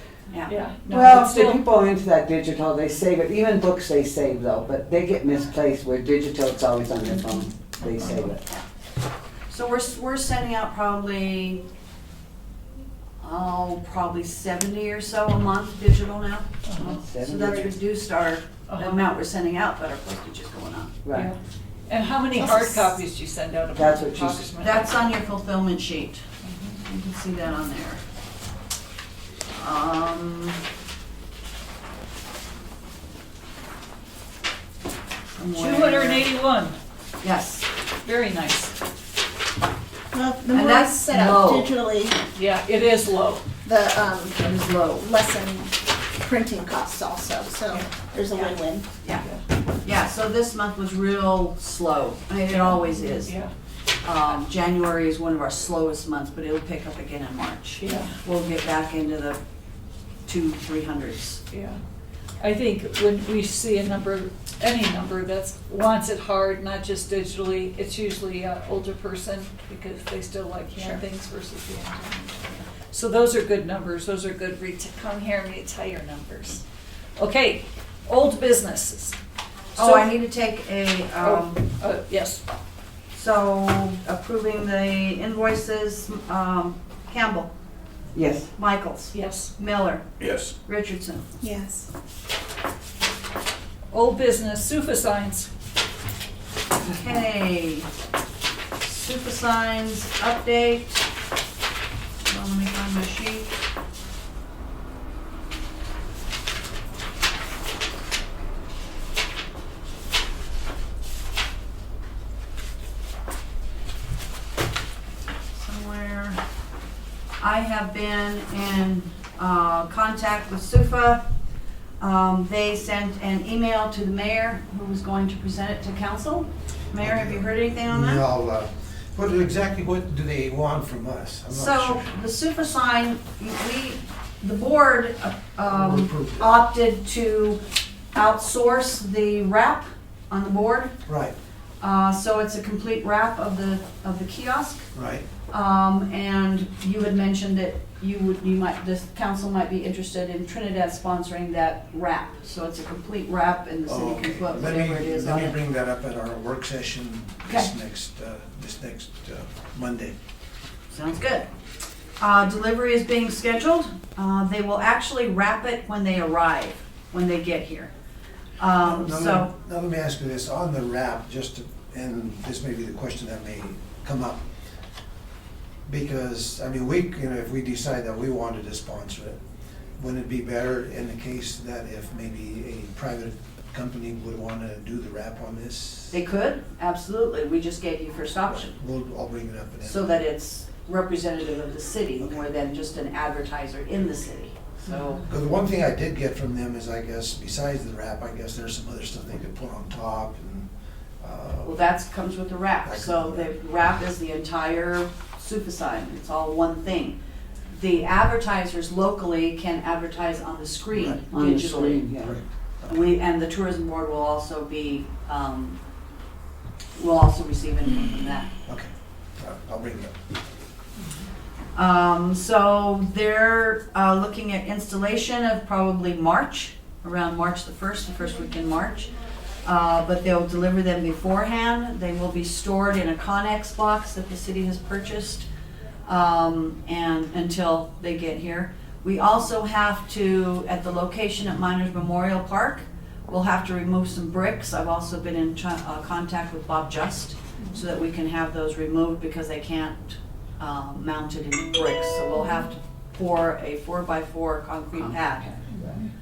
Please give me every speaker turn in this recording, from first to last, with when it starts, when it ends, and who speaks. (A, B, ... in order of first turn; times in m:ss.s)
0:00.5-0:01.6 A
0:00.9-0:08.4 B
0:07.9-0:08.3 A
0:09.5-0:11.6 C
0:13.2-0:21.0 C
0:16.7-0:17.0 A
0:16.9-0:17.7 B
0:18.7-0:19.0 A
0:21.0-0:21.3 B
0:21.9-0:25.0 A
0:22.4-0:22.8 C
0:23.7-0:24.5 B
0:24.6-0:26.2 C
0:26.4-0:26.8 A
0:26.8-0:28.0 C
0:29.5-0:30.6 C
0:35.4-0:36.3 C
0:35.5-0:36.8 A
0:37.2-0:37.7 C
0:38.0-0:38.7 A
0:40.1-0:42.2 D
0:40.5-0:41.7 C
0:42.4-0:43.4 A
0:43.6-0:48.9 D
0:44.3-0:45.1 C
0:47.7-0:48.5 A
0:49.2-0:49.4 A
0:49.8-0:53.3 C
0:52.5-0:53.5 A
0:54.0-0:59.4 C
0:57.8-0:58.2 A
1:00.3-1:01.4 C
1:01.5-1:01.8 A
1:02.4-1:16.6 A
1:17.2-1:19.2 A
1:19.8-1:20.1 A
1:19.8-1:21.6 C
1:21.2-1:22.4 A
1:23.1-1:27.5 C
1:28.2-1:28.5 B
1:28.6-1:31.2 C
1:29.1-1:29.5 A
1:31.4-1:31.9 D
1:33.9-1:35.5 A
1:36.8-1:37.9 C
1:38.8-1:41.1 C
1:42.3-1:43.5 C
1:55.5-1:56.4 C
1:57.4-2:01.2 C
2:02.0-2:08.2 C
2:07.0-2:12.1 E
2:11.5-2:17.6 C
2:15.6-2:16.5 E
2:18.1-2:20.9 C
2:21.1-2:21.3 E
2:21.8-2:24.9 C
2:24.9-2:25.3 E
2:25.5-2:35.6 C
2:33.9-2:40.2 E
2:40.9-2:41.5 C
2:42.2-2:47.9 C
2:48.6-2:49.5 C
2:48.8-2:54.4 E
2:55.9-2:59.4 E
3:00.0-3:06.2 E
3:06.1-3:08.7 C
3:08.5-3:10.2 E
3:09.8-3:15.2 C
3:15.2-3:20.7 E
3:21.2-3:21.8 E
3:21.6-3:27.2 C
3:22.8-3:23.5 E
3:27.7-3:32.1 C
3:31.2-3:32.4 B
3:32.2-3:32.9 E
3:32.9-3:35.8 C
3:37.0-3:38.5 C
3:38.7-3:40.2 E
3:41.8-3:49.1 C
3:49.6-3:55.5 C
3:56.1-4:15.6 C